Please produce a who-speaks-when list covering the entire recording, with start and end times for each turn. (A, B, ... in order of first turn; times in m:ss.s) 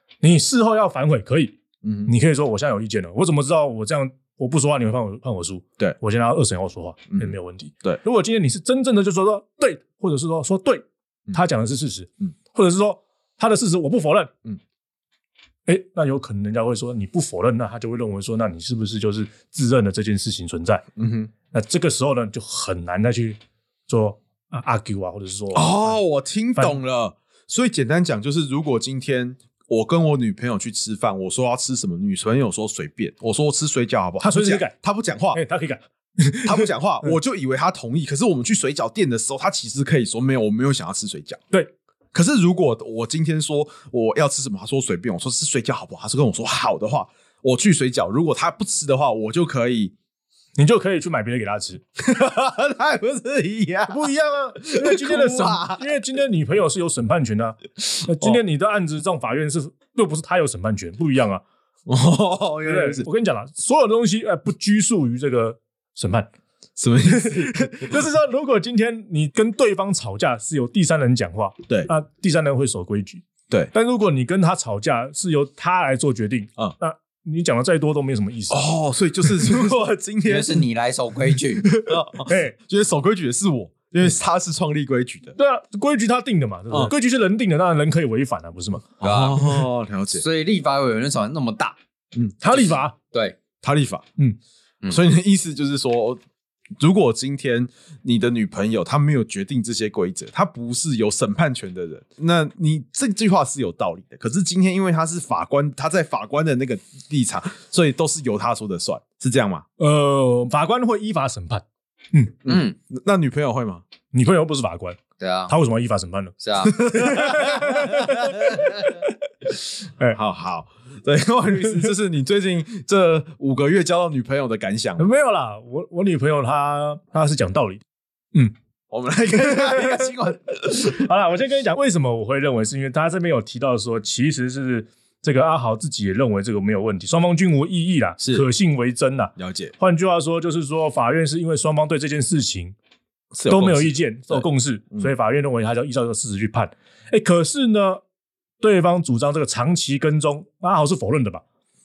0:00.2-0:14.3 A
0:01.8-0:02.1 B
0:15.7-0:20.8 A
0:21.0-0:21.3 B
0:21.5-0:26.0 A
0:25.5-0:35.4 B
0:34.2-0:34.8 A
0:35.3-0:37.1 A
0:36.4-0:41.4 B
0:42.1-0:49.9 B
0:50.6-0:51.8 A
0:52.0-0:54.1 B
0:53.9-1:01.4 A
0:54.6-0:55.9 B
0:57.8-0:58.4 B
1:01.9-1:03.1 B
1:02.6-1:06.3 A
1:06.8-1:08.0 B
1:07.0-1:18.7 A
1:18.5-1:20.6 B
1:19.2-1:19.7 A
1:20.2-1:21.7 C
1:21.6-1:22.5 A
1:21.8-1:25.3 B
1:25.4-1:28.9 A
1:29.0-1:30.2 B
1:29.0-1:31.8 C
1:32.4-1:32.9 A
1:32.5-1:33.4 C
1:33.6-1:34.0 B
1:34.9-1:36.2 B
1:36.8-1:49.6 B
1:49.8-1:52.4 A
1:52.4-1:53.8 B
1:52.4-1:52.8 C
1:54.1-1:59.1 A
1:55.2-1:55.5 C
1:56.4-1:56.8 C
1:56.8-1:58.6 B
2:00.0-2:05.1 B
2:01.6-2:01.9 A
2:05.0-2:07.8 A
2:08.9-2:11.1 B
2:09.4-2:10.1 A
2:10.8-2:22.7 A
2:18.2-2:18.4 B
2:19.4-2:19.7 B
2:23.3-2:25.1 B
2:23.5-2:28.0 A
2:28.6-2:31.4 A